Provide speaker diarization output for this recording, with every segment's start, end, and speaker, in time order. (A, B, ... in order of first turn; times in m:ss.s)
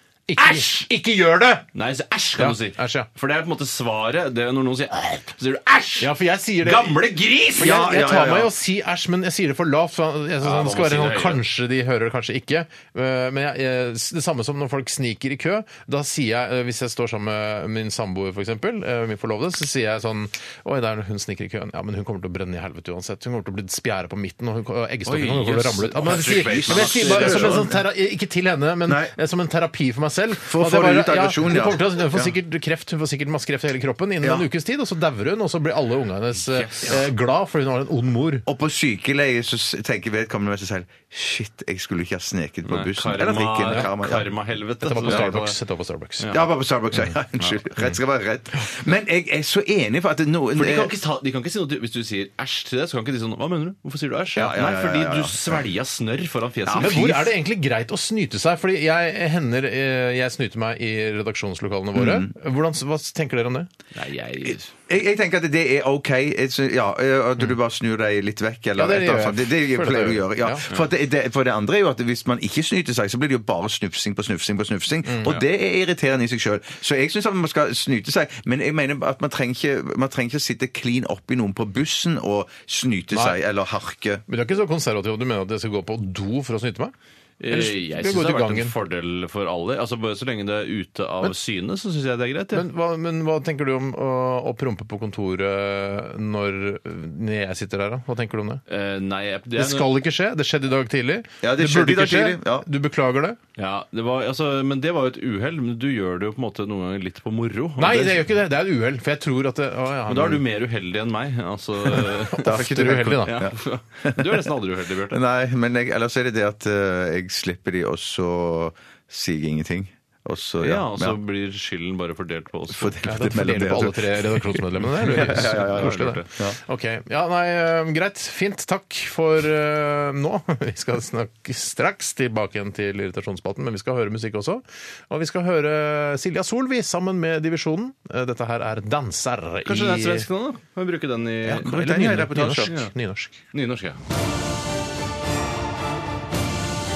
0:00.3-0:01.6 A
0:00.4-0:00.9 B
0:01.7-0:06.1 B
0:02.4-0:03.1 A
0:06.0-0:07.0 A
0:06.6-0:07.8 B
0:07.6-0:08.5 C
0:07.6-0:38.4 A
0:10.4-0:11.4 B
0:25.0-0:27.7 B
0:26.0-0:27.8 C
0:28.8-0:29.1 C
0:30.4-0:32.3 C
0:34.2-0:34.5 C
0:36.4-0:37.0 B
0:38.4-0:44.3 C
0:42.7-0:45.6 B
0:44.8-0:46.2 A
0:45.0-0:45.3 C
0:46.3-0:50.9 C
0:50.5-0:57.3 B
0:54.3-0:55.6 C
0:56.6-0:57.1 C
0:56.8-1:03.7 A
1:01.9-1:02.3 C
1:03.9-1:04.7 B
1:04.9-1:24.2 C
1:08.8-1:10.6 A
1:15.0-1:15.3 A
1:23.1-1:23.4 A
1:24.3-1:26.9 A
1:27.4-1:32.6 B
1:27.5-1:28.7 A
1:32.5-1:38.6 A
1:38.7-1:39.9 B
1:39.6-1:43.4 A
1:41.4-1:42.7 C
1:43.6-1:48.2 B
1:47.8-1:50.4 A
1:50.1-1:55.2 B
1:52.0-1:53.4 A
1:52.4-1:54.5 C
1:55.1-2:01.2 C
2:00.6-2:03.0 B
2:02.7-2:06.6 C
2:03.0-2:20.3 A
2:05.1-2:06.3 B
2:19.6-2:21.8 B
2:21.4-2:22.8 C
2:21.6-2:23.4 A
2:22.4-2:22.9 B
2:23.5-2:24.0 B